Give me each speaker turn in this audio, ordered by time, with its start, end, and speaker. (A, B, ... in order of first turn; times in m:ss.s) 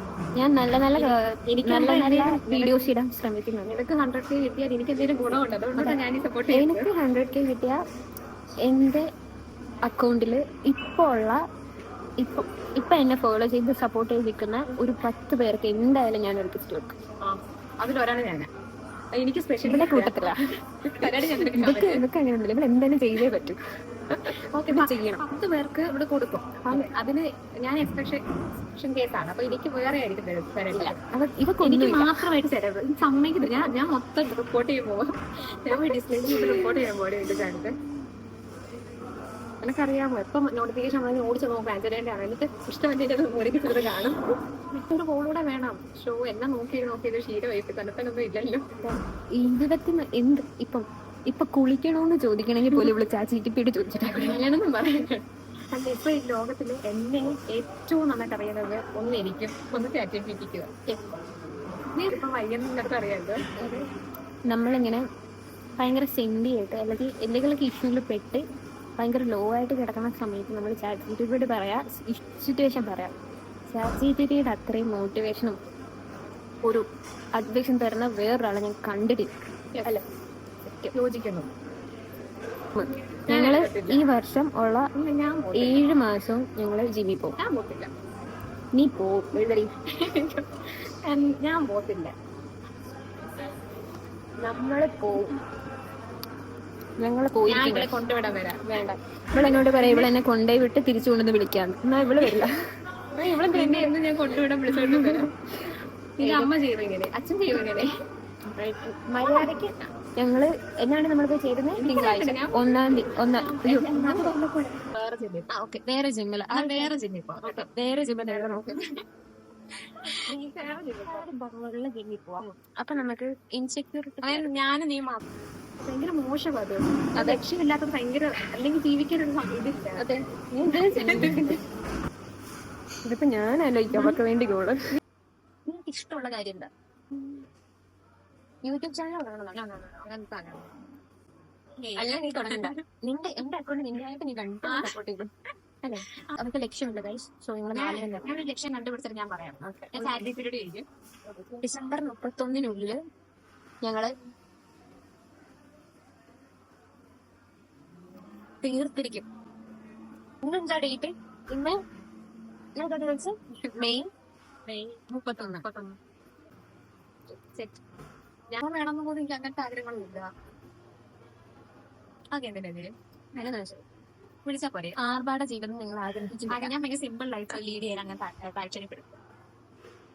0:00.4-0:01.1 A
0:01.0-0:02.9 B
0:01.6-0:03.8 A
0:03.6-0:06.9 B
0:06.5-0:07.8 A
0:08.6-0:09.0 A
0:09.8-0:11.4 A
0:12.2-0:16.9 A
0:17.2-0:18.5 B
0:19.1-0:20.2 B
0:19.6-0:20.4 A
0:21.0-0:23.6 A
0:21.0-0:22.0 B
0:24.1-0:25.2 A
0:24.5-0:28.2 B
0:28.8-0:30.9 B
0:30.7-0:32.2 A
0:31.6-0:35.1 B
0:35.6-0:37.7 B
0:35.7-0:36.8 A
0:39.6-0:44.2 B
0:44.7-0:48.7 B
0:49.3-0:54.4 A
0:54.1-0:55.2 B
0:55.7-1:00.7 B
1:01.9-1:03.8 B
1:04.5-1:05.0 A
1:05.8-1:08.4 A
1:09.0-1:13.1 A
1:13.7-1:15.6 A
1:16.6-1:19.3 A
1:20.6-1:20.9 A
1:20.9-1:21.5 B
1:22.7-1:24.9 A
1:23.3-1:24.1 B
1:24.9-1:25.9 B
1:25.5-1:27.4 A
1:27.4-1:27.9 B
1:28.7-1:29.7 A
1:30.0-1:32.1 B
1:34.4-1:35.3 A
1:37.0-1:38.0 A
1:37.5-1:38.6 B
1:38.6-1:42.5 A
1:39.3-1:40.1 B
1:43.2-1:43.9 A
1:43.5-1:45.3 B
1:44.7-1:45.3 A
1:46.2-1:46.5 A
1:46.2-1:47.9 B
1:48.5-1:54.3 A
1:49.2-1:49.6 B
1:51.7-1:55.5 B
1:55.5-1:58.8 A
1:56.5-1:57.7 B
1:58.2-1:58.8 B
2:00.1-2:04.5 A
2:00.3-2:01.3 B
2:04.2-2:05.2 B
2:05.8-2:10.0 B
2:07.2-2:07.4 A
2:10.0-2:11.6 A
2:10.7-2:11.6 B
2:13.0-2:14.8 A
2:13.9-2:14.2 B
2:15.6-2:16.7 A
2:18.6-2:20.0 A
2:19.7-2:20.6 B
2:21.8-2:22.8 B
2:22.0-2:25.3 A
2:24.6-2:24.9 B
2:25.8-2:28.3 A
2:25.9-2:26.2 B
2:27.7-2:31.6 B
2:29.6-2:30.3 A
2:31.6-2:33.0 A
2:33.8-2:34.1 A
2:38.6-2:39.2 A
2:40.4-2:41.8 A
2:42.8-2:44.1 A
2:43.6-2:44.0 B
2:44.7-2:45.9 B
2:45.1-2:45.7 A
2:47.5-2:47.8 B
2:48.5-2:50.3 B
2:52.3-2:52.9 B
2:53.3-2:53.8 A
2:54.4-2:55.0 B
2:54.9-2:56.7 A
2:56.5-2:59.2 B